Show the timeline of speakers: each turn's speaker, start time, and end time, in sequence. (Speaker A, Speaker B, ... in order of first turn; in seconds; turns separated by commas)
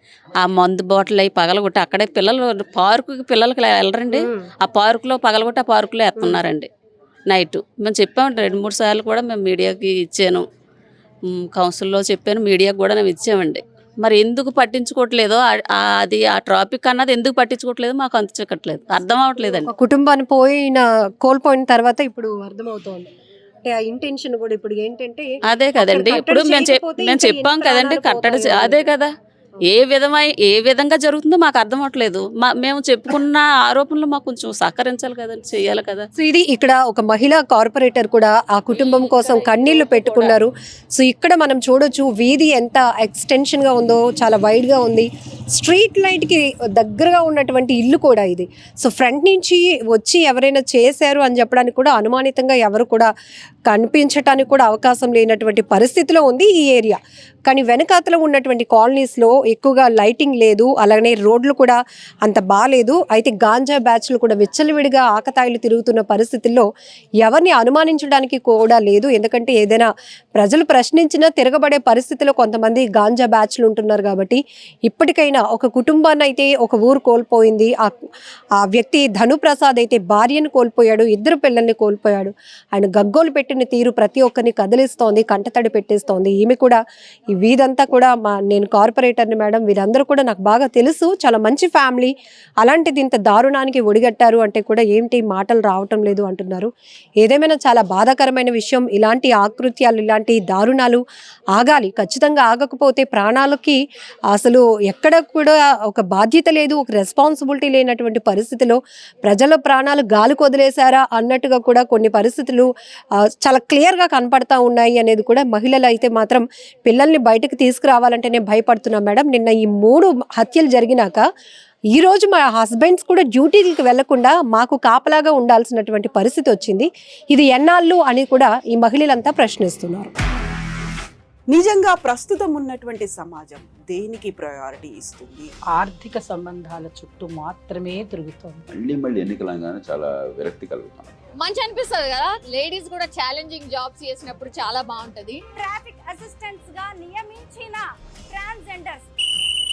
Speaker A: 0.4-6.7, Speaker B: 4.1-4.5, Speaker B: 6.2-6.4, Speaker A: 7.3-10.4, Speaker A: 11.4-19.7, Speaker B: 19.5-23.1, Speaker B: 23.6-25.3, Speaker A: 25.4-29.1, Speaker B: 25.8-28.9, Speaker A: 29.6-36.1, Speaker B: 36.2-53.1, Speaker A: 38.7-40.4, Speaker B: 53.7-66.7, Speaker B: 67.2-77.9, Speaker B: 78.6-86.8, Speaker B: 87.3-96.7, Speaker B: 97.2-101.0, Speaker B: 101.5-103.8, Speaker B: 104.3-112.7, Speaker B: 113.3-121.2, Speaker B: 121.9-130.1, Speaker C: 131.5-135.5, Speaker D: 135.7-138.6, Speaker E: 138.7-141.1, Speaker F: 141.4-145.4, Speaker G: 145.6-149.1